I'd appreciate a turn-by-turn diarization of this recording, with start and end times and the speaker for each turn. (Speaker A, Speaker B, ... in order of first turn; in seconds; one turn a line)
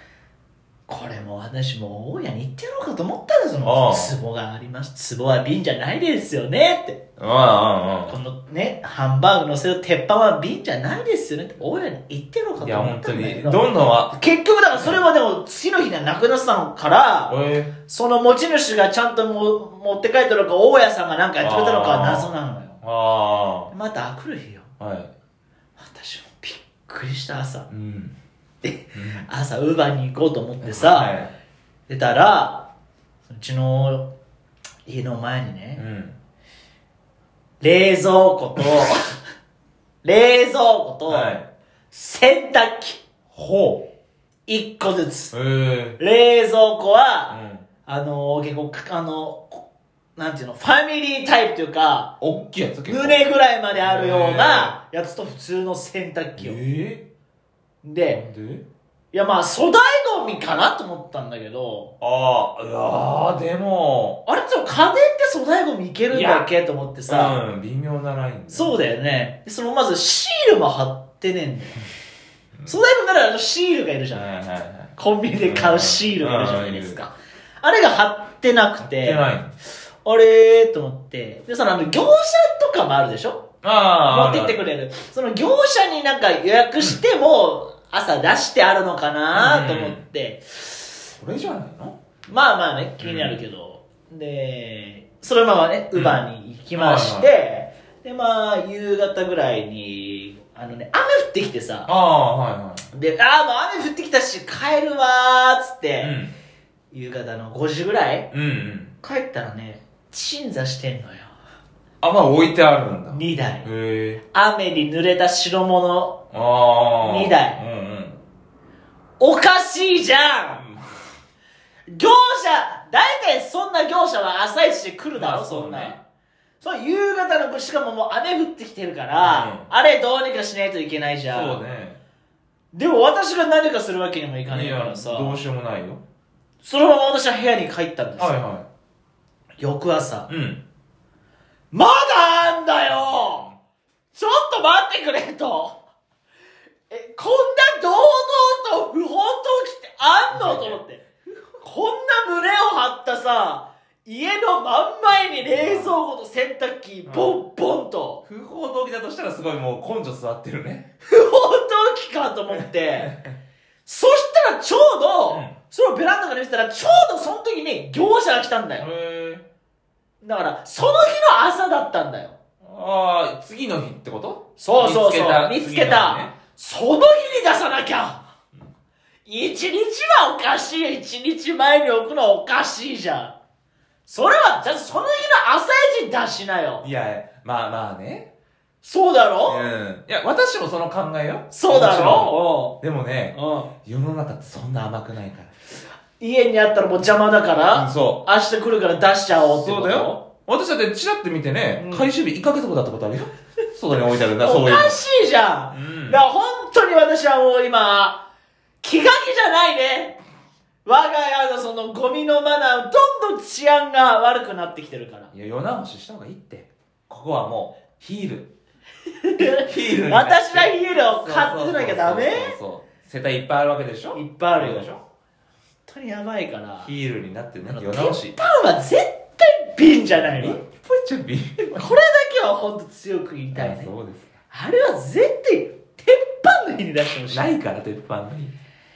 Speaker A: 0.9-7.0
Speaker B: 3.6-4.2
Speaker B: 7.2-8.2
Speaker A: 8.1-22.8
Speaker B: 12.6-14.1
Speaker B: 14.7-15.0
Speaker B: 17.3-17.7
Speaker B: 21.4-23.7
Speaker A: 23.7-24.7
Speaker B: 24.8-25.1
Speaker A: 25.8-27.7
Speaker B: 27.7-28.1
Speaker A: 28.6-31.1
Speaker B: 28.9-29.2
Speaker B: 30.6-31.3
Speaker A: 31.9-32.7
Speaker A: 33.3-34.1
Speaker A: 34.9-35.8
Speaker B: 35.8-36.2
Speaker A: 37.6-39.2
Speaker A: 40.0-41.4
Speaker B: 41.1-41.5
Speaker A: 41.9-43.0
Speaker B: 43.3-43.9
Speaker A: 44.5-45.3
Speaker B: 45.3-46.0
Speaker A: 46.0-49.6
Speaker B: 47.3-47.6
Speaker A: 50.1-52.1
Speaker B: 52.2-53.2
Speaker A: 52.9-56.6
Speaker B: 53.7-54.7
Speaker B: 56.4-57.0
Speaker A: 57.8-58.2
Speaker B: 58.1-58.6
Speaker A: 59.1-61.9
Speaker B: 62.0-64.2
Speaker A: 64.2-67.4
Speaker B: 66.1-66.5
Speaker B: 67.1-68.8
Speaker A: 68.5-71.8
Speaker A: 72.7-74.2
Speaker B: 74.1-77.0
Speaker A: 75.0-79.2
Speaker B: 78.8-79.5
Speaker A: 80.0-83.5
Speaker B: 83.6-84.6
Speaker A: 84.0-90.7
Speaker B: 89.3-90.0
Speaker B: 91.2-92.0
Speaker A: 92.3-101.9
Speaker B: 93.0-93.4
Speaker B: 95.9-96.2
Speaker B: 96.7-97.3
Speaker B: 101.8-102.9
Speaker A: 102.9-106.2
Speaker B: 106.0-106.3
Speaker A: 106.9-108.3
Speaker B: 108.3-108.9
Speaker A: 109.0-111.3
Speaker B: 112.0-114.2
Speaker A: 113.1-113.7
Speaker A: 114.3-116.2
Speaker B: 116.3-118.2
Speaker A: 117.0-117.6
Speaker A: 119.2-120.6
Speaker B: 120.5-120.8
Speaker A: 121.9-126.0
Speaker B: 125.1-126.0
Speaker A: 126.6-131.6
Speaker B: 129.2-129.7
Speaker B: 131.3-132.0
Speaker A: 132.7-135.4
Speaker B: 134.4-136.0
Speaker A: 136.6-138.3
Speaker B: 138.2-138.7
Speaker A: 139.6-140.3
Speaker B: 140.3-140.6
Speaker A: 141.7-143.5
Speaker B: 142.8-143.6
Speaker A: 144.1-145.8
Speaker A: 146.9-151.0
Speaker B: 150.3-151.6
Speaker A: 151.6-158.2
Speaker B: 155.1-155.9
Speaker B: 157.1-157.4
Speaker B: 158.2-160.9
Speaker A: 161.1-163.1
Speaker B: 162.5-163.3
Speaker A: 163.8-168.9
Speaker B: 165.3-165.6
Speaker B: 168.8-169.4
Speaker A: 170.2-172.3
Speaker B: 172.6-176.3
Speaker A: 174.6-178.2
Speaker A: 179.2-183.3
Speaker A: 184.1-186.8
Speaker B: 186.8-188.3
Speaker A: 188.8-189.7
Speaker B: 189.4-195.5
Speaker A: 191.5-192.8
Speaker A: 193.3-193.7
Speaker A: 196.2-200.2
Speaker B: 197.7-198.2
Speaker B: 199.3-205.0
Speaker A: 201.8-202.1
Speaker A: 204.4-208.2
Speaker B: 205.7-206.2
Speaker A: 208.8-210.2
Speaker A: 210.8-215.3
Speaker B: 215.3-218.5
Speaker A: 219.2-222.5
Speaker B: 219.4-225.0
Speaker A: 224.1-224.9
Speaker A: 225.8-226.9
Speaker B: 226.8-228.3
Speaker A: 227.7-230.6
Speaker B: 230.1-231.9
Speaker A: 231.7-233.9
Speaker B: 233.5-234.3
Speaker A: 234.5-237.5
Speaker B: 237.3-238.5